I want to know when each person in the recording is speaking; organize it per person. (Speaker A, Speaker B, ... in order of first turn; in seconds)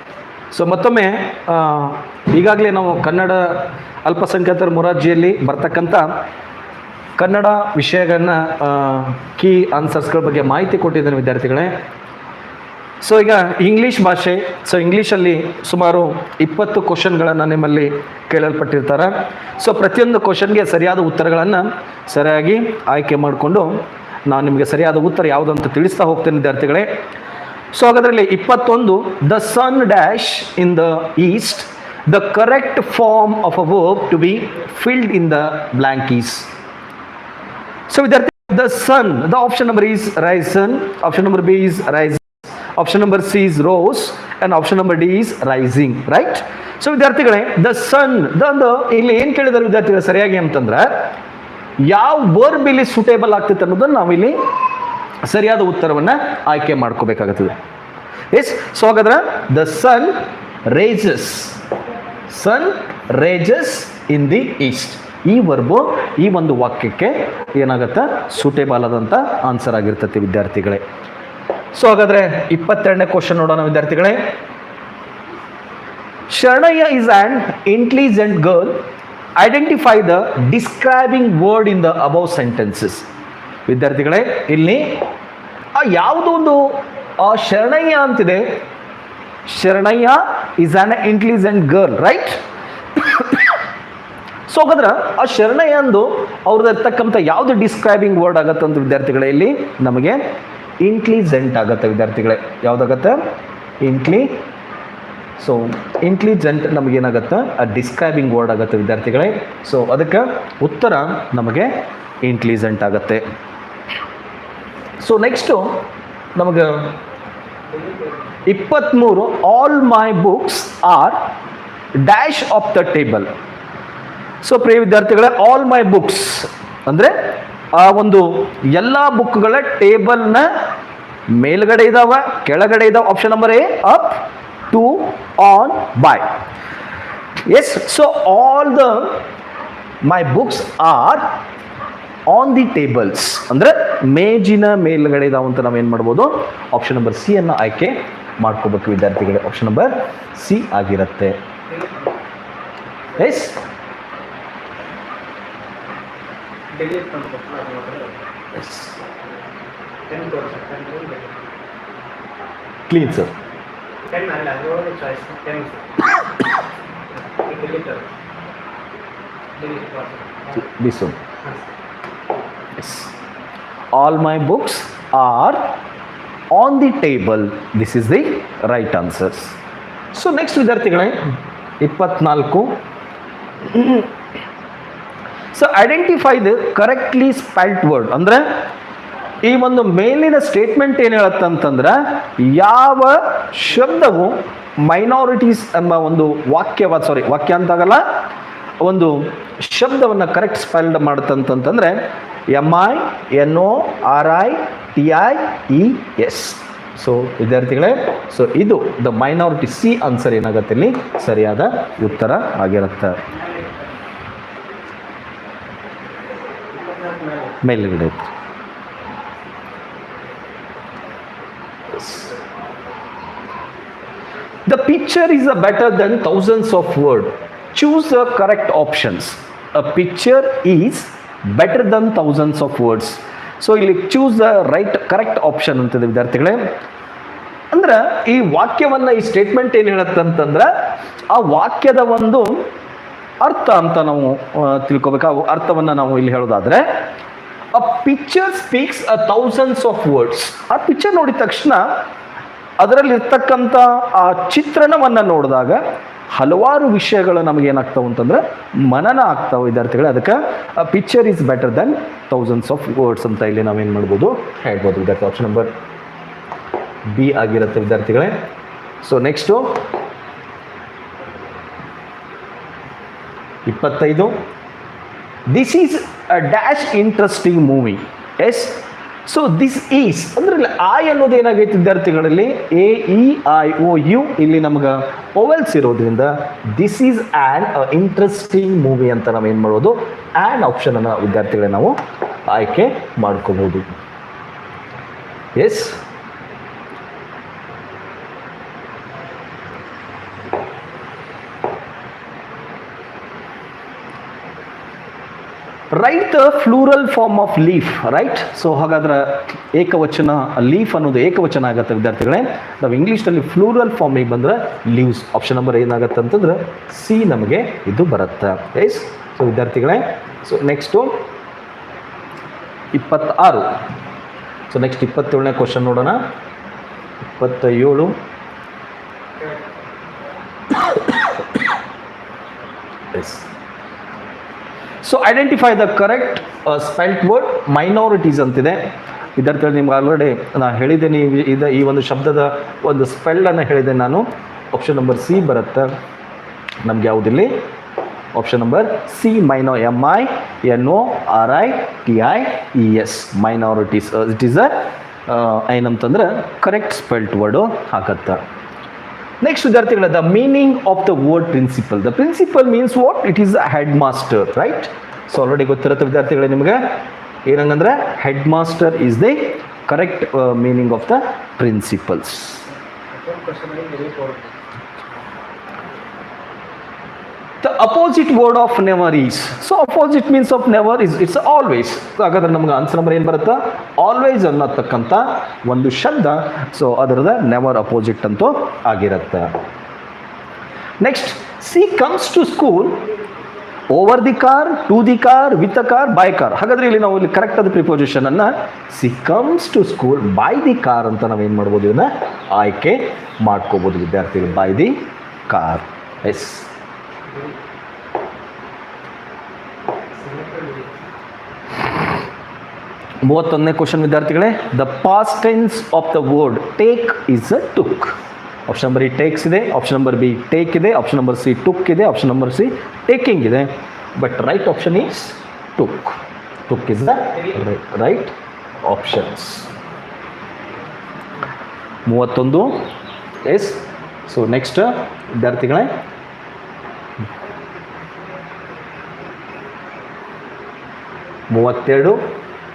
Speaker A: 0.5-6.1, 7.2-11.8, 13.0-26.9, 27.7-36.5, 37.9-51.1, 51.8-54.5, 55.2-57.6, 58.3-61.6, 62.3-70.8, 71.7-74.3, 76.3-78.8, 79.4-83.1, 83.7-85.1, 85.8-88.6, 89.5-92.4, 93.0-93.6, 94.5-100.2, 100.8-103.3, 103.8-104.5, 105.4-113.2, 115.0-117.0, 118.5-121.3, 122.0-123.3, 124.4-130.5, 131.3-136.3, 137.5-139.2, 140.0-141.4, 142.3-151.4, 153.2-153.6, 158.5-159.0, 162.9-163.3, 170.5-171.2, 172.8-173.2, 173.9-175.8, 176.5-179.6, 180.1-182.8, 183.7-184.1, 185.5-188.4, 189.4-198.0, 198.8-202.0, 202.5-213.3, 217.6-218.3, 222.0-222.3, 224.7-236.6, 237.7-240.7, 241.3-242.7, 243.4-246.8, 247.7-251.9, 252.8-265.7, 267.1-268.4, 269.0-269.8, 273.7-274.4, 275.5-294.0, 295.6-296.0, 305.9-321.2, 322.9-323.8, 324.7-326.2, 327.4-328.2, 333.1-333.5, 335.0-345.9, 346.8-347.7, 348.3-358.4, 359.4-372.7, 377.6-389.5, 391.0-393.1, 393.9-406.7, 413.2-429.7, 432.1-432.9, 433.4-436.0, 441.5-442.3
Speaker B: 117.7-118.2, 151.7-152.1, 156.7-158.2, 160.1-161.4, 164.1-166.2, 167.2-168.1, 169.6-170.5, 216.8-217.4, 373.1-374.5, 410.2-410.9